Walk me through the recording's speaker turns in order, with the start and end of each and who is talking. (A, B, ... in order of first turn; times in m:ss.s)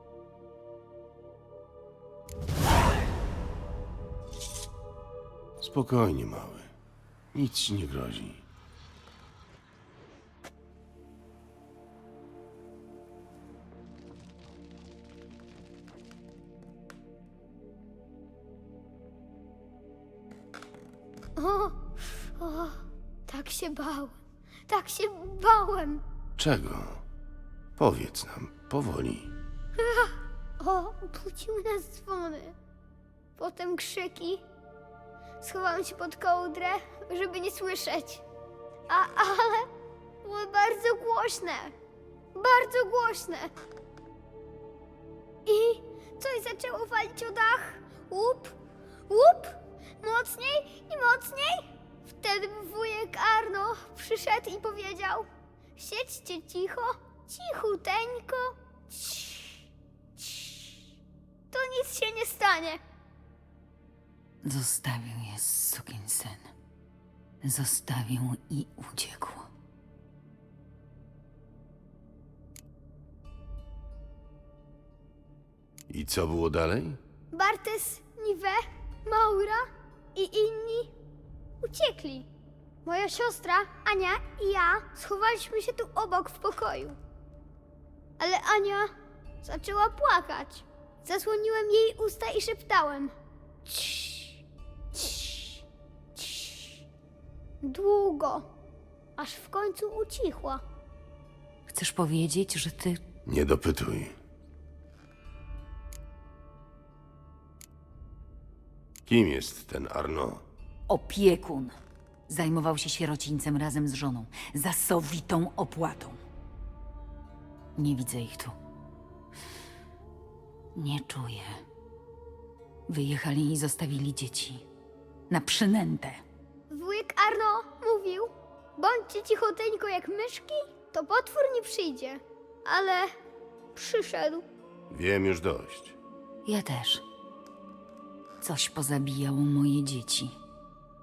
0:05.6-0:06.7 A
0:07.3-0:08.4 A
0:21.4-0:26.0 B
0:26.4-0:27.0 A
0:27.8-0:29.3 A
0:29.8-0:32.6 B
0:33.4-0:34.4 B
0:35.4-0:38.2 B
0:38.9-0:39.7 B
0:40.2-0:41.7 B
0:42.3-0:43.5 B
0:45.4-0:48.6 B
0:49.1-0:59.6 B
1:00.2-1:00.6 B
1:01.5-1:02.8 B
1:04.4-1:06.5 C
1:07.4-1:09.5 C
1:15.9-1:17.0 A
1:17.3-1:20.9 B
1:21.6-1:22.3 B
1:22.8-1:27.0 B
1:28.2-1:33.1 B
1:33.6-1:34.4 B
1:34.9-1:35.6 B
1:36.2-1:36.8 B
1:37.6-1:38.5 B
1:39.2-1:40.6 B
1:41.7-1:43.0 C
1:43.2-1:44.1 A
1:49.0-1:50.4 A
1:50.9-1:51.8 C
1:52.3-1:56.2 C
1:57.8-1:58.6 C
2:00.7-2:01.6 C
2:02.9-2:04.6 C
2:05.3-2:06.2 C
2:06.7-2:13.1 B
2:13.7-2:14.4 B
2:14.9-2:16.0 A
2:16.4-2:17.0 C
2:18.4-2:20.4 C